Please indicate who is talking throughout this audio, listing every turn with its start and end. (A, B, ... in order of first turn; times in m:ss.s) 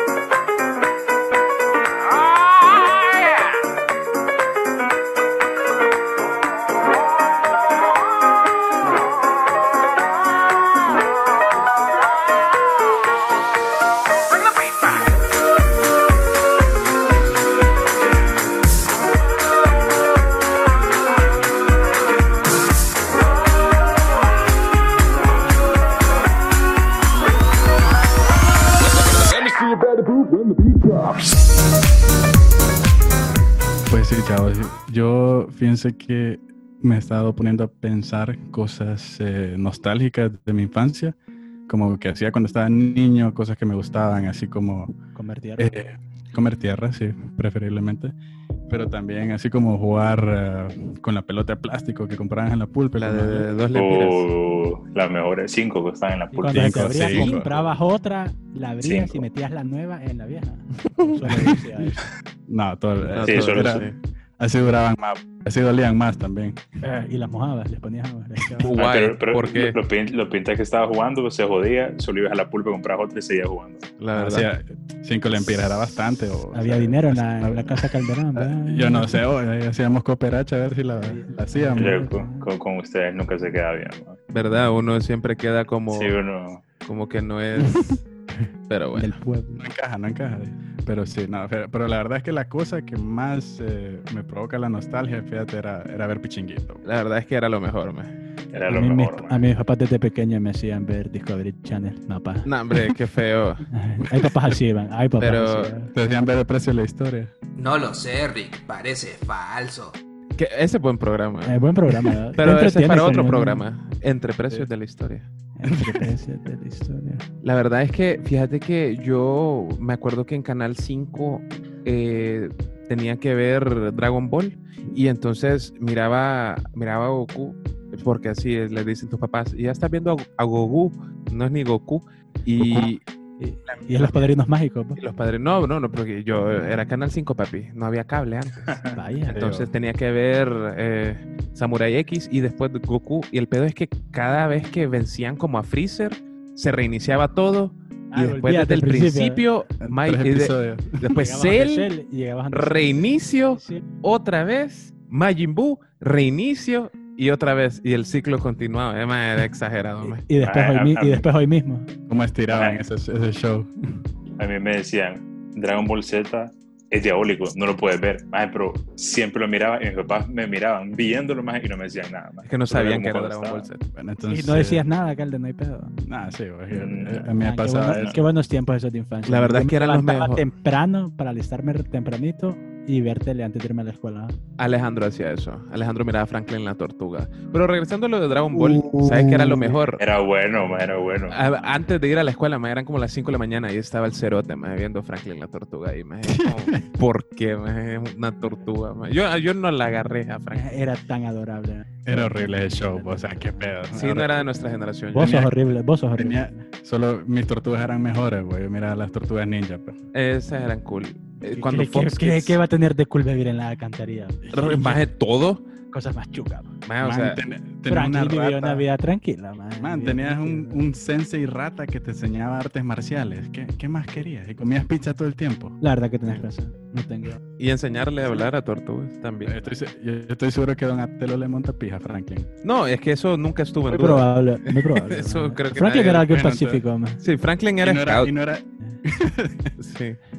0:02.1-0:03.6 A
0:14.4-0:14.9 A
0:33.9-0:41.2 B
0:41.7-0:44.9 B
0:45.2-0:45.8 C
0:45.6-0:48.1 B
0:48.7-0:53.5 B
0:53.0-0:54.3 D
0:53.7-0:56.9 E
0:56.3-1:02.0 C
0:56.5-0:57.8 B
0:57.0-0:57.4 D
0:58.8-0:59.3 E
1:01.0-1:01.5 D
1:02.5-1:03.9 B
1:03.0-1:04.0 D
1:03.2-1:03.9 E
1:04.4-1:06.6 B
1:06.8-1:08.8 C
1:08.6-1:09.8 D
1:08.7-1:13.9 E
1:14.0-1:14.5 D
1:14.1-1:22.0 B
1:16.5-1:19.2 C
1:21.0-1:22.5 C
1:21.8-1:24.2 E
1:24.3-1:26.2 D
1:25.9-1:26.7 E
1:26.8-1:28.0 D
1:27.6-1:28.0 B
1:28.7-1:29.2 D
1:28.9-1:29.6 C
1:29.6-1:36.8 B
1:36.8-1:38.2 D
1:38.5-1:39.5 E
1:38.6-1:42.9 C
1:42.4-1:43.7 D
1:43.7-1:45.9 C
1:44.1-1:44.6 B
1:45.2-1:45.7 D
1:45.9-1:47.3 B
1:47.6-1:49.9 F
1:47.8-1:51.6 D
1:51.4-1:53.7 C
1:52.4-1:55.3 D
1:55.6-1:57.2 C
1:55.6-1:56.1 B
1:57.4-2:13.0 D
2:12.6-2:12.9 B
2:13.4-2:15.0 C
2:13.7-2:14.3 D
2:15.0-2:18.8 D
2:18.7-2:19.7 B
2:18.9-2:19.4 C
2:19.3-2:31.9 D
2:28.1-2:29.5 C
2:29.8-2:31.1 B
2:31.1-2:33.8 C
2:32.5-2:40.2 D
2:40.0-2:41.9 C
2:40.4-2:41.2 E
2:42.1-2:43.7 B
2:42.5-2:42.8 E
2:44.4-2:53.7 E
2:52.4-2:53.8 D
2:53.9-2:54.9 B
2:54.3-2:55.9 C
2:56.0-2:58.1 B
2:56.7-2:57.3 E
2:57.4-3:04.4 C
2:57.9-2:58.2 E
2:59.2-3:00.4 D
3:04.6-3:10.0 D
3:08.6-3:09.7 C
3:08.8-3:09.6 B
3:10.0-3:11.4 E
3:11.3-3:20.7 D
3:16.4-3:16.8 B
3:20.5-3:23.8 C
3:22.1-3:24.3 B
3:23.9-3:25.4 D
3:25.1-3:26.6 C
3:25.2-3:25.6 B
3:26.2-3:30.0 B
3:30.1-3:32.6 D
3:31.5-3:34.8 C
3:34.4-3:35.0 B
3:34.5-3:35.6 D
3:35.9-3:36.7 C
3:36.8-3:37.4 D
3:37.0-3:38.9 B
3:37.9-3:40.9 C
3:39.8-3:45.8 B
3:45.8-3:47.4 C
3:47.6-3:49.6 D
3:49.4-3:52.5 B
3:52.6-3:56.3 D
3:53.9-3:57.2 C
3:56.2-3:56.8 B
3:57.2-3:58.3 D
3:57.8-3:59.8 B
3:59.8-4:00.2 D